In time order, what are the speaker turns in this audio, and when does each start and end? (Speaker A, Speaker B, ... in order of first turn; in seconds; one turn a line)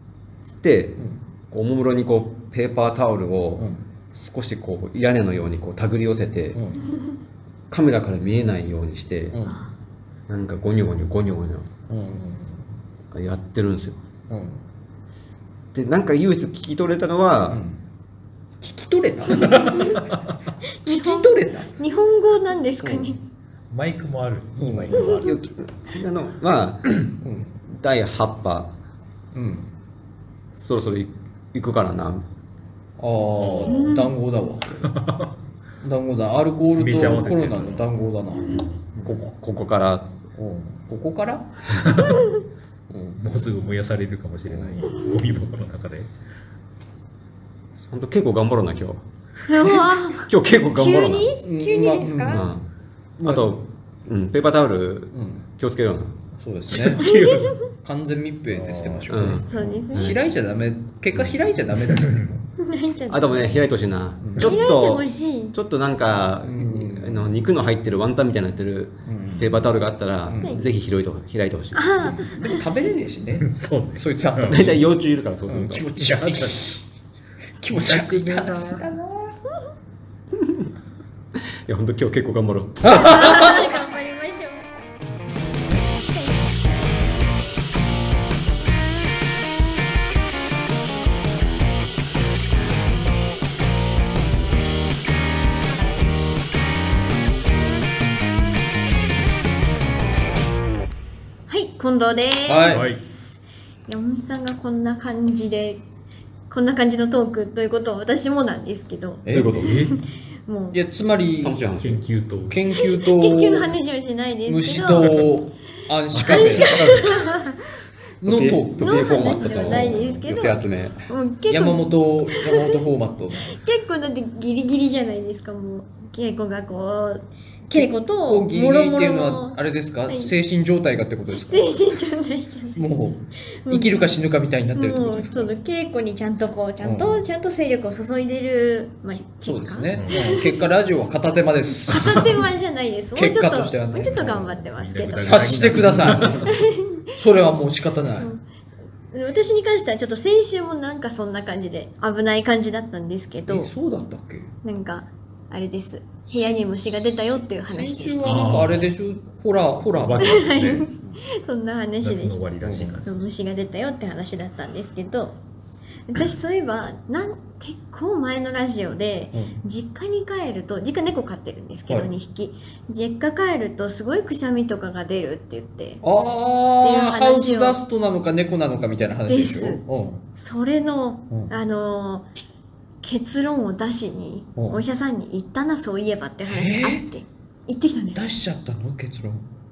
Speaker A: 0.5-6.6
Speaker B: 3.6-3.8
Speaker B: 6.5-6.8
Speaker A: 7.7-9.3
Speaker B: 9.3-9.6
Speaker A: 10.3-11.7
Speaker B: 11.9-12.6
Speaker A: 13.1-14.0
Speaker B: 14.3-14.6
Speaker A: 15.7-17.6
Speaker B: 17.5-17.8
Speaker B: 18.6-20.0
Speaker C: 19.4-20.0
Speaker C: 20.8-23.2
Speaker B: 20.8-21.7
Speaker D: 23.7-25.4
Speaker B: 24.6-25.0
Speaker C: 24.9-25.2
Speaker A: 25.2-27.1
Speaker B: 27.2-27.5
Speaker A: 27.7-28.7
Speaker B: 29.3-29.7
Speaker A: 30.6-32.2
Speaker B: 33.0-34.9
Speaker C: 33.6-34.1
Speaker D: 34.9-35.3
Speaker B: 35.8-39.2
Speaker D: 36.6-37.9
Speaker A: 39.0-40.1
Speaker B: 40.4-41.5
Speaker D: 41.8-42.2
Speaker B: 42.9-43.2
Speaker D: 43.2-46.1
Speaker B: 44.5-44.9
Speaker A: 47.8-49.0
Speaker C: 49.5-52.5
Speaker A: 50.1-51.4
Speaker B: 51.4-52.5
Speaker A: 52.3-52.6
Speaker B: 53.2-53.5
Speaker A: 53.2-56.1
Speaker B: 55.1-55.4
Speaker B: 56.4-57.1
Speaker D: 56.7-57.5
Speaker C: 57.0-57.7
Speaker B: 57.7-62.4
Speaker D: 58.5-59.8
Speaker A: 59.1-60.2
Speaker C: 59.5-60.1
Speaker D: 61.9-62.3
Speaker C: 62.6-63.6
Speaker A: 63.1-72.1
Speaker B: 64.2-64.5
Speaker C: 64.4-65.5
Speaker B: 66.4-67.3
Speaker B: 69.1-69.7
Speaker C: 71.7-72.6
Speaker B: 72.0-74.9
Speaker D: 73.4-74.7
Speaker A: 74.5-75.9
Speaker B: 75.5-76.8
Speaker D: 76.0-76.6
Speaker B: 77.6-79.3
Speaker D: 77.8-78.7
Speaker A: 80.3-80.7
Speaker A: 81.7-82.9
Speaker B: 82.8-83.8
Speaker C: 82.8-84.7
Speaker C: 101.5-103.3
Speaker B: 102.5-102.9
Speaker D: 102.7-103.0
Speaker C: 103.9-105.8
Speaker C: 106.5-109.7
Speaker B: 109.2-109.6
Speaker A: 109.3-109.8
Speaker D: 109.3-110.0
Speaker C: 110.5-110.8
Speaker B: 110.7-111.6
Speaker A: 111.4-112.0
Speaker D: 111.8-112.6
Speaker B: 112.5-113.7
Speaker C: 112.8-115.3
Speaker B: 114.5-117.2
Speaker D: 116.1-117.3
Speaker C: 116.3-117.6
Speaker B: 118.2-120.0
Speaker A: 118.2-121.0
Speaker C: 118.8-122.8
Speaker B: 121.5-123.6
Speaker C: 123.5-130.3
Speaker B: 127.7-131.9
Speaker C: 131.3-132.8
Speaker B: 132.7-135.5
Speaker C: 133.7-134.1
Speaker C: 134.7-140.6
Speaker B: 136.8-137.2
Speaker B: 139.3-142.4
Speaker D: 139.9-140.2
Speaker C: 141.8-147.2
Speaker B: 143.1-144.6
Speaker D: 144.2-146.6
Speaker B: 145.2-146.6
Speaker B: 147.2-148.3
Speaker C: 149.1-153.7
Speaker B: 153.5-154.5
Speaker C: 154.6-158.6
Speaker B: 157.7-161.2
Speaker D: 158.2-158.9
Speaker D: 160.0-160.9
Speaker C: 160.2-162.4
Speaker D: 162.0-163.3
Speaker B: 162.6-163.0
Speaker C: 163.0-165.4
Speaker C: 166.1-176.0
Speaker B: 169.3-169.6
Speaker B: 176.0-180.2
Speaker C: 176.8-177.8
Speaker C: 179.3-179.8
Speaker C: 180.3-182.2
Speaker C: 183.0-188.2
Speaker B: 184.6-184.8
Speaker B: 186.5-187.0
Speaker B: 188.1-189.4